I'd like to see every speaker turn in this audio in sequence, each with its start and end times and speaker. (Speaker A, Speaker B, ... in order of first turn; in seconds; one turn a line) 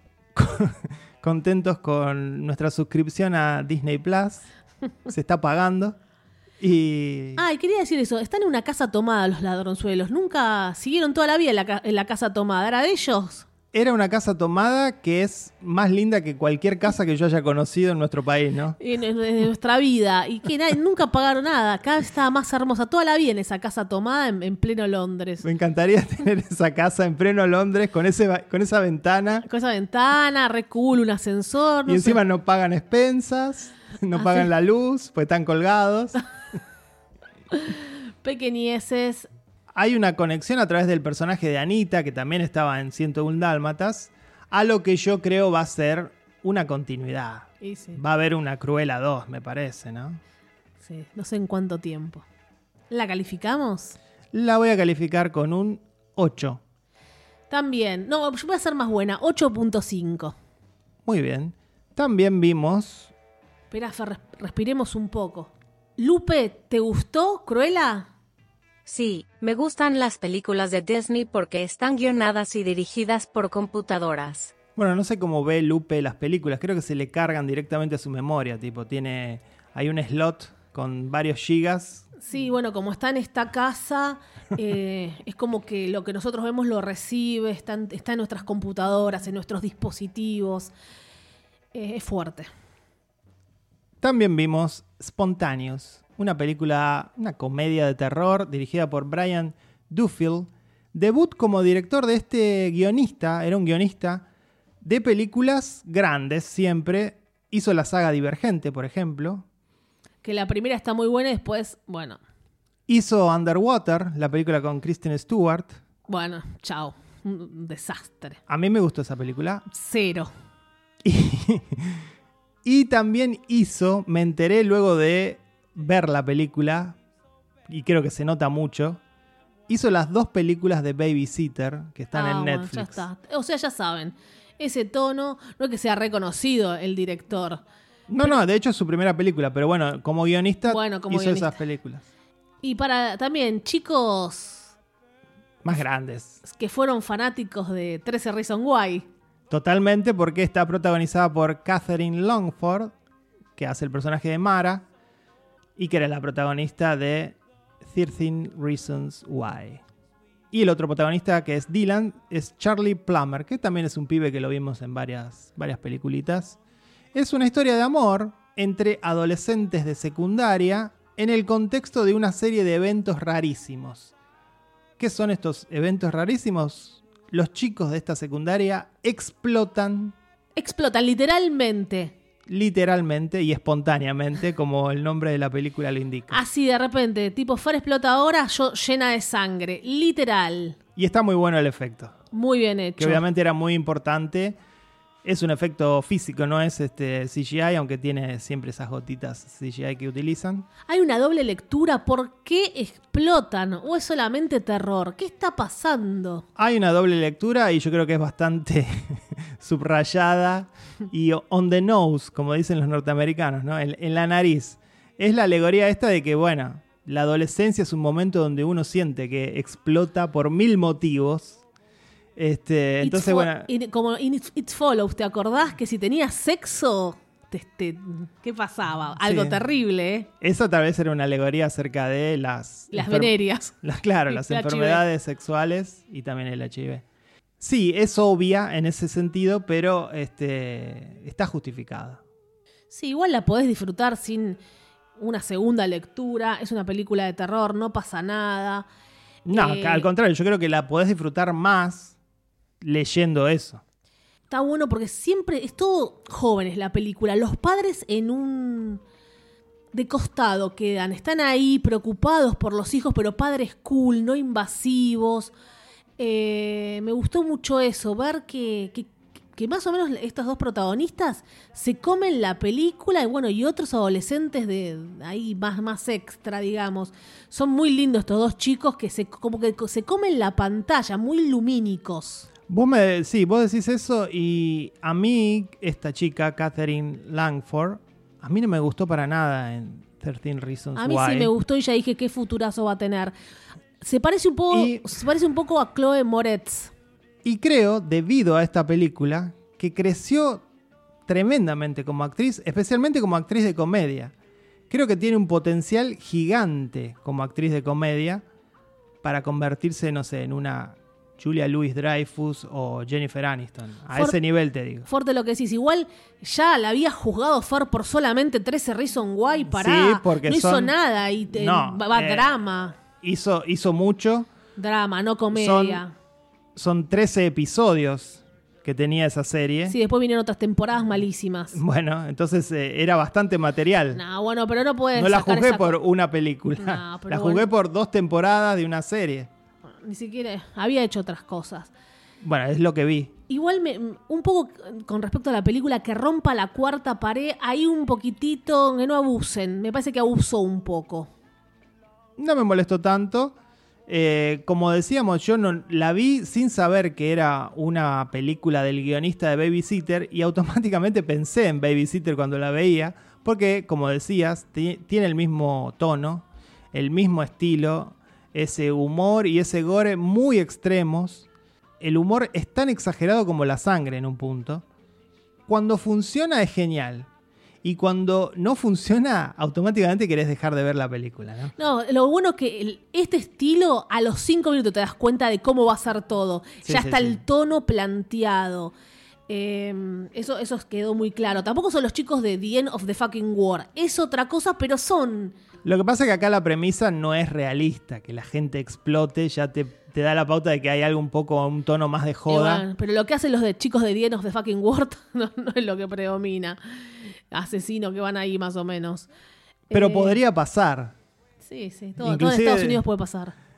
Speaker A: 0.3-4.5
Speaker A: 5.1-6.0
Speaker A: 6.6-7.4
Speaker B: 7.4-13.5
Speaker A: 13.7-18.8
Speaker B: 18.8-25.4
Speaker A: 25.4-29.4
Speaker B: 29.4-32.2
Speaker A: 31.9-36.2
Speaker B: 34.1-34.5
Speaker B: 37.5-39.3
Speaker A: 39.7-50.2
Speaker B: 47.6-48.0
Speaker B: 50.8-52.2
Speaker B: 52.9-54.0
Speaker A: 54.3-56.6
Speaker B: 57.5-60.3
Speaker A: 61.0-63.1
Speaker B: 63.7-68.1
Speaker C: 68.8-74.5
Speaker A: 74.8-82.1
Speaker B: 82.2-90.7
Speaker B: 91.7-92.5
Speaker A: 94.0-104.2
Speaker A: 104.8-109.4
Speaker B: 110.2-112.2
Speaker A: 112.9-115.8
Speaker B: 116.1-118.4
Speaker A: 118.5-119.6
Speaker B: 119.7-120.3
Speaker A: 121.0-122.0
Speaker A: 122.6-127.0
Speaker A: 127.7-129.0
Speaker A: 129.7-133.0
Speaker B: 132.1-137.6
Speaker A: 138.1-142.0
Speaker B: 140.7-141.5
Speaker B: 142.6-144.7
Speaker A: 145.6-146.4
Speaker B: 146.4-149.1
Speaker A: 149.5-152.9
Speaker A: 153.6-154.8
Speaker A: 155.8-159.8
Speaker A: 160.5-166.6
Speaker A: 167.1-174.1
Speaker A: 175.0-180.1
Speaker B: 180.6-182.1
Speaker A: 182.5-186.4
Speaker B: 186.3-190.8
Speaker A: 190.9-192.2
Speaker B: 192.3-193.2
Speaker A: 193.0-194.6
Speaker A: 195.2-200.7
Speaker B: 200.9-206.4
Speaker A: 206.6-221.6
Speaker A: 222.3-223.7
Speaker B: 223.0-230.3
Speaker A: 229.2-229.6
Speaker A: 230.4-237.0
Speaker B: 232.9-233.7
Speaker B: 234.3-235.0
Speaker A: 237.6-242.2
Speaker B: 242.9-244.6
Speaker B: 245.2-248.9
Speaker A: 249.5-252.1
Speaker B: 249.5-250.1
Speaker A: 252.8-253.8
Speaker B: 254.5-259.0
Speaker B: 259.9-265.5
Speaker B: 266.2-282.5
Speaker A: 282.7-291.5
Speaker B: 290.9-293.3
Speaker B: 294.0-296.9
Speaker A: 294.7-295.0
Speaker A: 297.4-300.6
Speaker A: 301.3-304.3
Speaker A: 304.9-308.4
Speaker A: 309.2-315.1
Speaker B: 315.1-322.9
Speaker A: 319.7-320.9
Speaker A: 321.5-322.5
Speaker A: 323.2-324.5
Speaker B: 324.8-326.1
Speaker A: 325.5-326.0
Speaker A: 326.7-329.9
Speaker B: 329.9-331.8
Speaker A: 331.7-334.2
Speaker B: 334.1-335.9
Speaker A: 335.1-339.5
Speaker B: 336.8-337.7
Speaker B: 340.0-341.9
Speaker A: 342.4-343.3
Speaker B: 343.5-351.3
Speaker A: 352.4-353.6
Speaker A: 354.1-371.5
Speaker A: 372.0-374.8
Speaker A: 375.7-377.3
Speaker A: 377.8-381.7
Speaker B: 381.8-388.9
Speaker A: 386.8-387.4
Speaker B: 389.5-395.6
Speaker A: 395.8-402.8
Speaker B: 402.5-409.3
Speaker B: 409.9-410.4
Speaker A: 409.9-411.1
Speaker B: 411.6-413.5
Speaker A: 412.2-413.0